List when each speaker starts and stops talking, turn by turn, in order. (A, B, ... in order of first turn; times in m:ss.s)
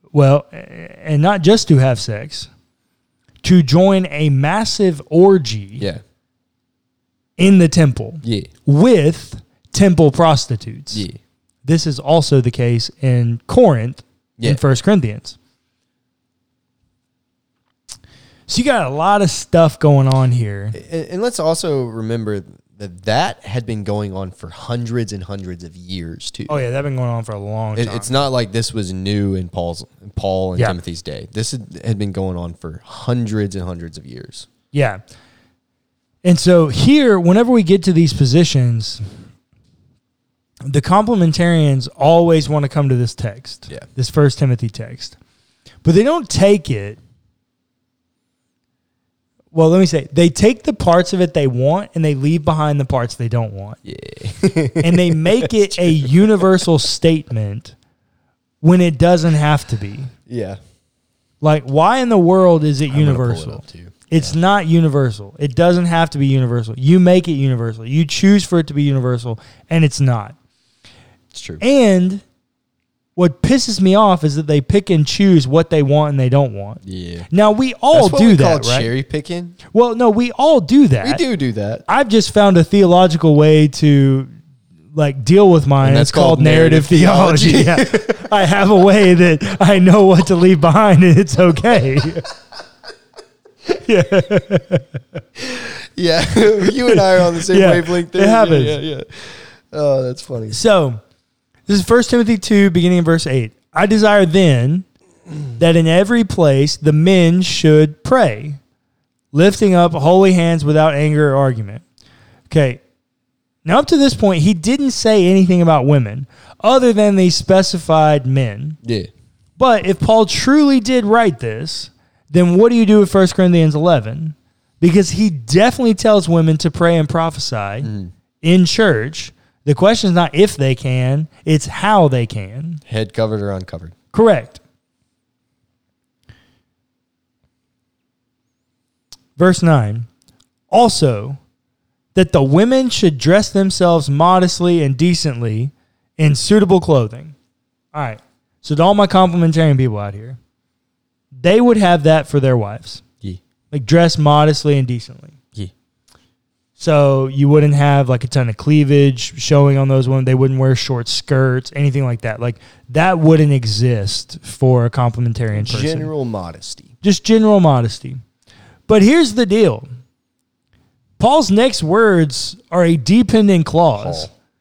0:00.1-0:02.5 A
0:03.4-0:05.8 A
0:05.8-0:06.0 B
0:07.4-0:11.0 A
0:08.2-0:08.5 B
0:10.9-0:11.2 B
0:11.6-0:15.4 A
0:18.5-0:20.8 A
0:20.7-0:26.5 B
0:26.5-0:28.1 A
0:27.7-0:34.5 B
0:34.7-0:35.0 A
0:36.2-0:39.0 A
0:40.6-0:45.2 A
0:45.8-0:47.0 A
0:49.5-0:53.8 A
0:53.8-0:56.6 B
0:54.8-0:57.8 A
0:58.6-1:00.1 A
1:00.3-1:00.6 B
1:01.4-1:10.4 A
1:02.9-1:04.3 B
1:11.3-1:11.6 B
1:11.6-1:12.2 A
1:13.2-1:18.9 A
1:16.8-1:17.3 B
1:17.9-1:19.6 B
1:19.7-1:21.2 A
1:21.0-1:21.8 B
1:21.9-1:24.4 A
1:24.9-1:32.3 A
1:25.8-1:28.4 B
1:33.7-1:35.2 A
1:35.4-1:40.6 B
1:36.9-1:38.8 A
1:40.5-1:41.0 A
1:41.7-1:44.9 A
1:45.5-1:48.6 A
1:49.3-1:51.8 A
1:52.5-1:52.8 A
1:53.6-1:58.8 A
1:58.8-1:59.1 B
1:59.6-2:07.9 A
2:07.8-2:08.1 B
2:08.4-2:12.8 A
2:12.8-2:13.9 B
2:14.1-2:14.6 A
2:19.4-2:20.1 A
2:20.7-2:21.4 A
2:22.1-2:27.4 A
2:27.9-2:30.4 A
2:31.3-2:33.0 A
2:33.7-2:35.4 A
2:36.8-2:46.1 A
2:45.5-2:46.9 B
2:47.0-2:48.2 A
2:48.9-2:49.9 A
2:51.2-2:54.3 A
2:54.0-2:54.3 B